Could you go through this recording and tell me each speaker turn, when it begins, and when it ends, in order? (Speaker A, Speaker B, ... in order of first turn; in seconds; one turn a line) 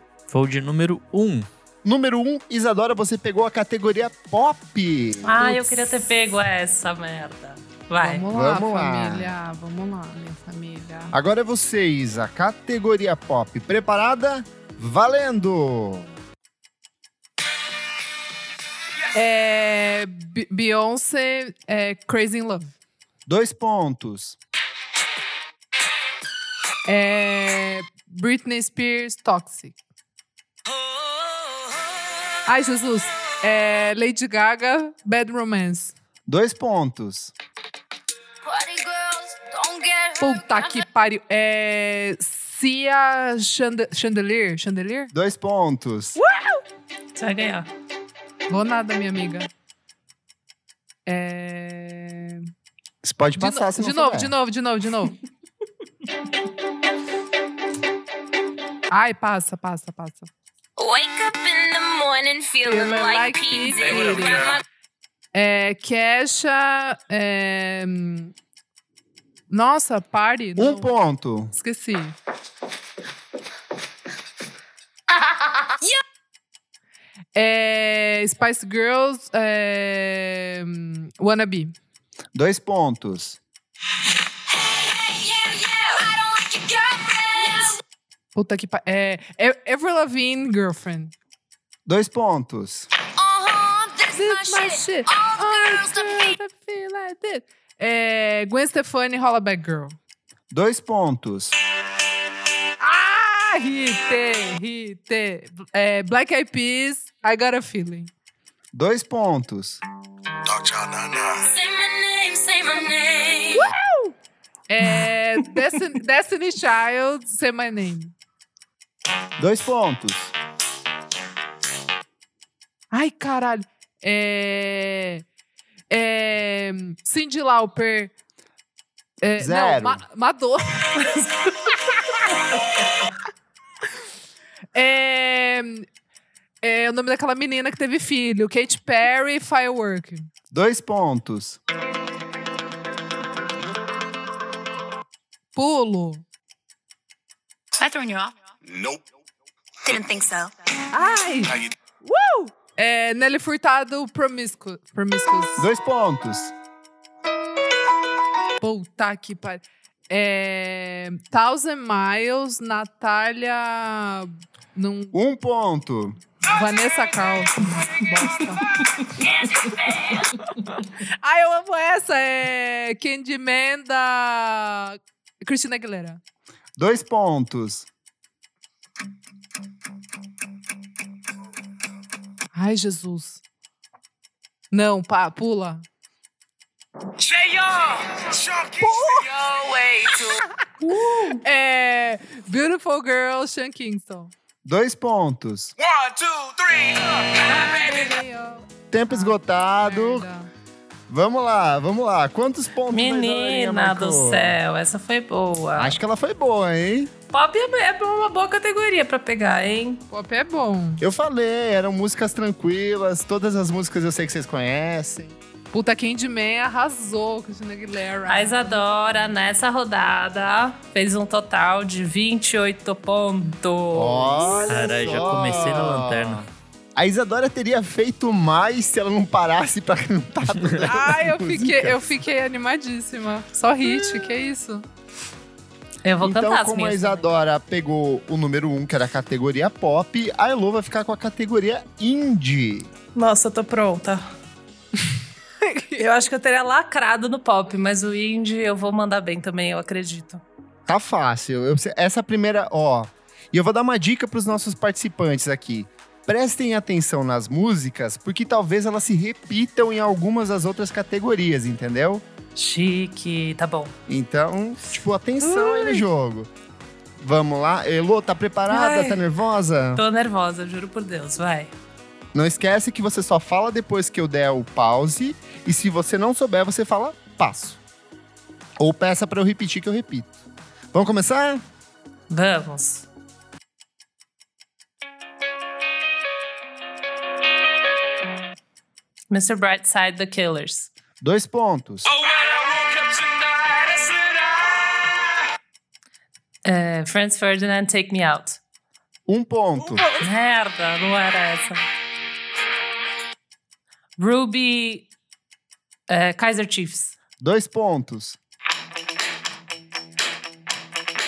Speaker A: 0.3-1.5
Speaker B: 1.8-5.8
Speaker C: 5.2-8.2
Speaker D: 8.0-11.2
Speaker B: 8.3-9.3
Speaker B: 11.1-16.1
Speaker D: 19.1-22.8
Speaker B: 23.3-24.4
Speaker D: 26.9-29.8
Speaker D: 32.5-35.9
Speaker B: 36.3-37.3
Speaker E: 38.4-40.8
Speaker D: 40.2-45.1
Speaker B: 45.1-46.2
Speaker D: 46.2-46.6
Speaker C: 47.2-47.7
Speaker D: 48.5-49.5
Speaker D: 51.1-52.5
Speaker B: 53.0-54.3
Speaker D: 53.4-55.2
Speaker D: 58.9-60.3
Speaker E: 60.8-64.6
Speaker D: 62.6-64.5
Speaker F: 63.8-64.5
Speaker D: 65.3-68.3
Speaker D: 69.5-71.0
Speaker B: 70.6-71.5
Speaker D: 71.5-72.2
Speaker D: 77.3-81.8
Speaker B: 82.3-83.4
Speaker E: 84.5-87.8
Speaker D: 88.3-91.1
Speaker B: 91.9-92.9
Speaker E: 93.2-96.4
Speaker D: 94.1-100.0
Speaker B: 100.5-101.5
Speaker D: 102.8-108.1
Speaker B: 108.7-109.8
Speaker F: 110.5-111.5
Speaker E: 111.5-113.7
Speaker D: 113.5-114.2
Speaker D: 114.7-118.1
Speaker B: 119.4-120.3
Speaker D: 122.9-125.2
Speaker D: 125.9-128.1
Speaker D: 129.2-131.3
Speaker B: 129.4-130.0
Speaker D: 134.8-135.9
Speaker D: 136.6-140.3
Speaker B: 140.5-141.6
Speaker D: 145.6-146.2
Speaker E: 147.8-148.4
Speaker F: 148.7-149.0
Speaker E: 149.8-150.6
Speaker D: 150.9-155.7
Speaker B: 155.6-156.5
Speaker D: 158.6-165.2
Speaker B: 165.1-166.2
Speaker D: 166.5-168.6
Speaker D: 171.2-176.2
Speaker B: 176.8-177.9
Speaker D: 182.5-183.4
Speaker D: 184.7-185.8
Speaker F: 187.2-190.4
Speaker D: 188.8-189.3
Speaker C: 190.8-191.4
Speaker D: 191.1-194.3
Speaker B: 194.7-195.7
Speaker F: 195.8-198.1
Speaker D: 197.4-200.5
Speaker B: 198.9-200.3
Speaker B: 201.1-204.6
Speaker C: 202.9-206.0
Speaker B: 205.8-207.1
Speaker C: 207.3-210.1
Speaker D: 210.1-211.0
Speaker B: 211.0-215.4
Speaker D: 215.7-218.8
Speaker C: 218.3-224.7
Speaker B: 223.9-232.0
Speaker D: 224.4-224.7
Speaker A: 224.7-226.5
Speaker D: 230.8-234.9
Speaker C: 236.1-237.4
Speaker B: 236.2-242.9
Speaker C: 243.2-244.3
Speaker C: 246.0-250.4
Speaker B: 250.9-262.2
Speaker C: 262.6-263.9
Speaker B: 264.1-266.5
Speaker C: 265.4-266.0
Speaker B: 267.2-270.0
Speaker C: 268.7-269.2
Speaker C: 270.0-271.7
Speaker B: 272.3-277.8
Speaker B: 278.8-280.4
Speaker B: 280.9-281.6
Speaker C: 282.3-283.1
Speaker C: 289.3-290.9
Speaker B: 291.2-292.1
Speaker F: 292.1-295.4
Speaker C: 296.6-298.6
Speaker B: 299.3-300.1
Speaker C: 300.2-301.8
Speaker C: 304.2-305.1
Speaker C: 306.1-307.2
Speaker B: 307.4-308.4